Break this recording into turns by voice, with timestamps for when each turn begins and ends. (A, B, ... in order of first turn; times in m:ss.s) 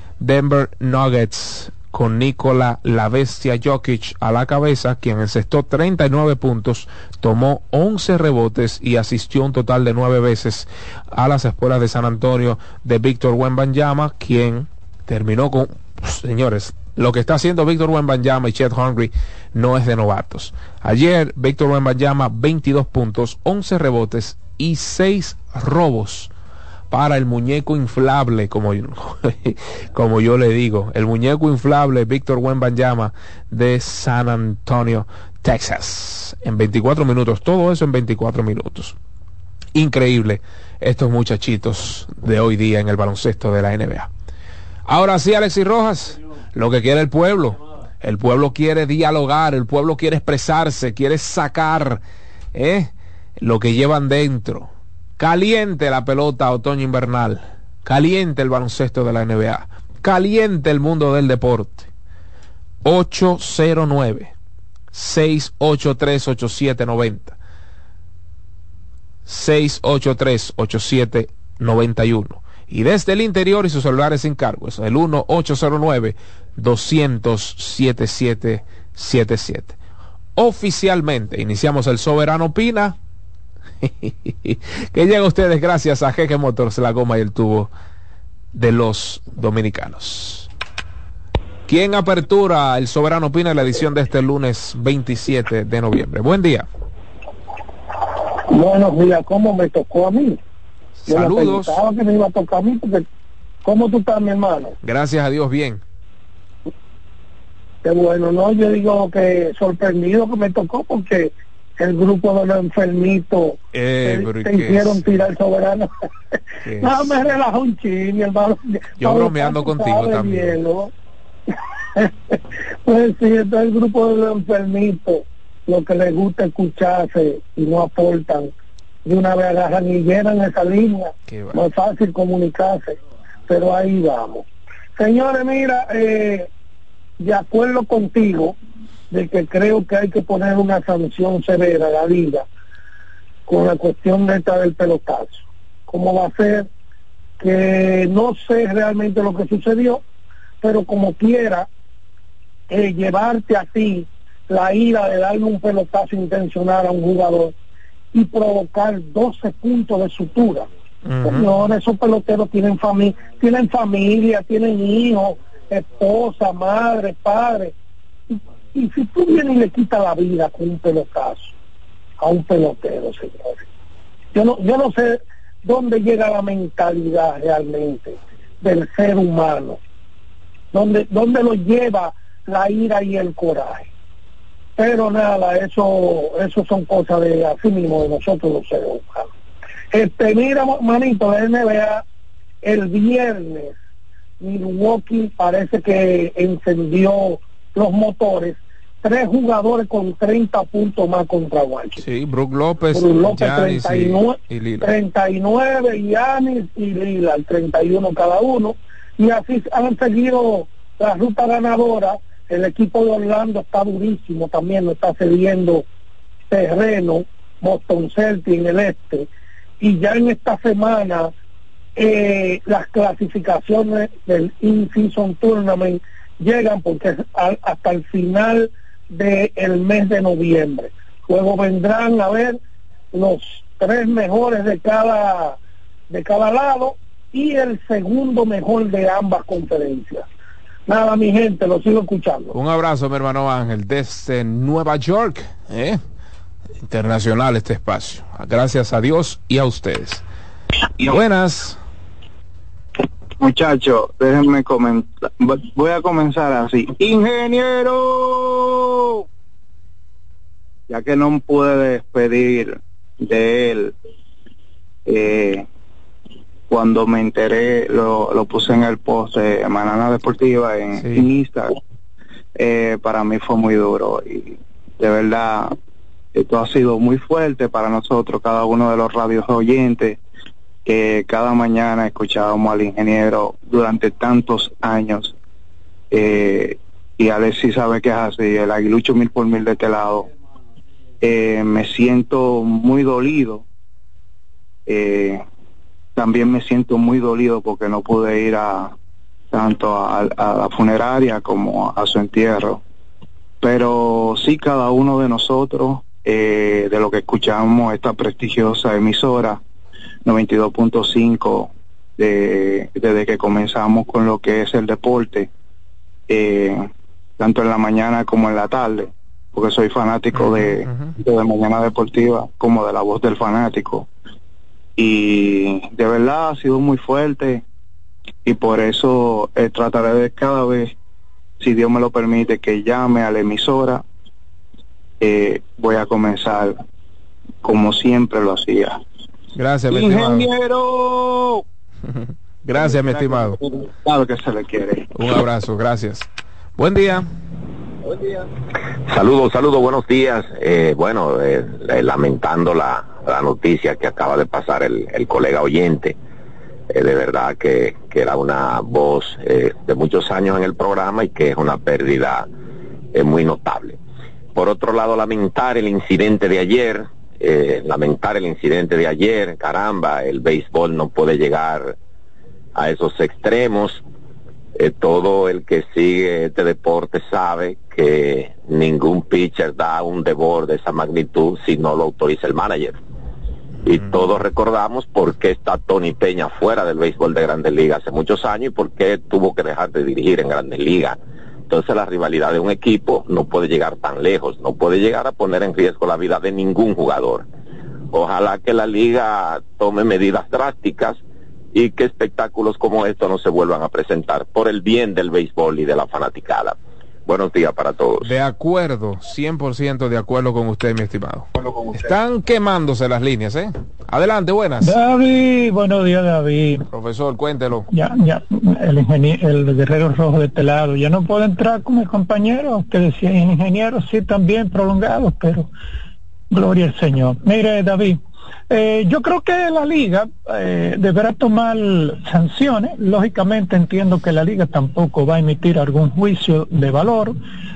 0:00.2-0:26.3 A
0:26.9-0:39.0 A
0:39.7-0:44.1 A
0:44.9-0:52.0 A
0:52.5-1:01.9 A
1:02.8-1:04.3 A
1:04.9-1:07.4 A
1:09.2-1:19.8 A
1:20.4-1:23.0 A
1:23.8-1:27.7 A
1:28.5-1:30.5 A
1:31.7-1:36.6 A
1:38.5-1:40.4 B
1:41.0-1:41.8 A
1:41.1-1:43.0 B
1:43.6-1:44.7 B
1:44.8-1:45.8 A
1:47.8-1:55.9 B
1:53.7-1:55.2 A
1:56.6-1:57.2 A
1:56.8-2:00.9 B
1:59.0-2:00.6 A
2:02.0-2:08.5 B
2:09.0-2:13.0 B
2:11.3-2:11.6 A
2:13.5-2:14.4 B
2:15.0-2:16.5 B
2:17.2-2:18.6 B
2:19.1-2:22.4 B
2:23.5-2:26.7 B
2:27.4-2:30.0 B
2:30.6-2:31.7 B
2:32.7-2:37.5 B
2:38.1-2:40.7 B
2:41.0-2:41.5 A
2:41.2-2:47.7 B
2:48.3-2:51.5 B
2:52.2-2:53.6 B
2:54.3-2:59.8 B
3:00.7-3:03.9 B
3:04.8-3:09.3 B
3:09.9-3:12.0 B
3:12.6-3:13.7 B
3:14.4-3:22.0 B
3:22.0-3:24.9 A
3:22.9-3:35.8 B
3:36.5-3:39.3 B
3:39.8-3:41.3 B
3:42.0-3:52.6 B
3:53.1-3:55.6 B
3:56.1-4:00.2 B
4:00.9-4:02.5 B
4:02.5-4:06.0 A
4:06.8-4:10.2 A
4:11.0-4:11.8 A
4:13.4-4:19.2 C
4:20.9-4:23.9 C
4:25.0-4:25.6 C
4:26.7-4:31.7 C
4:31.0-4:31.3 A
4:32.6-4:35.7 C
4:36.3-4:40.2 C
4:40.8-4:45.3 C
4:46.1-4:50.3 C
4:51.2-4:53.6 C
4:54.9-4:55.4 C
4:56.2-4:58.9 C
4:59.5-5:02.8 C
5:03.6-5:09.6 C
5:10.2-5:15.5 C
5:16.3-5:16.8 C
5:17.4-5:24.1 C
5:20.3-5:21.2 A
5:25.0-5:27.6 C
5:28.4-5:30.9 C
5:31.6-5:34.0 C
5:35.2-5:36.8 C
5:37.6-5:39.0 C
5:39.5-5:40.5 A
5:39.9-5:41.6 C
5:42.6-5:43.6 A
5:42.7-5:45.1 C
5:45.1-5:47.3 A
5:49.1-5:56.2 D
5:56.9-6:02.5 D
6:03.1-6:04.0 D
6:04.5-6:12.0 D
6:12.8-6:14.0 D
6:14.8-6:23.0 D
6:23.8-6:31.2 D
6:31.7-6:37.4 D
6:38.1-6:41.2 D
6:41.7-6:48.3 D
6:48.2-6:55.0 A
6:51.6-6:52.1 C
6:54.8-6:56.8 E
6:56.9-6:57.9 A
6:57.9-7:05.7 E
7:06.5-7:08.2 E
7:08.7-7:17.4 E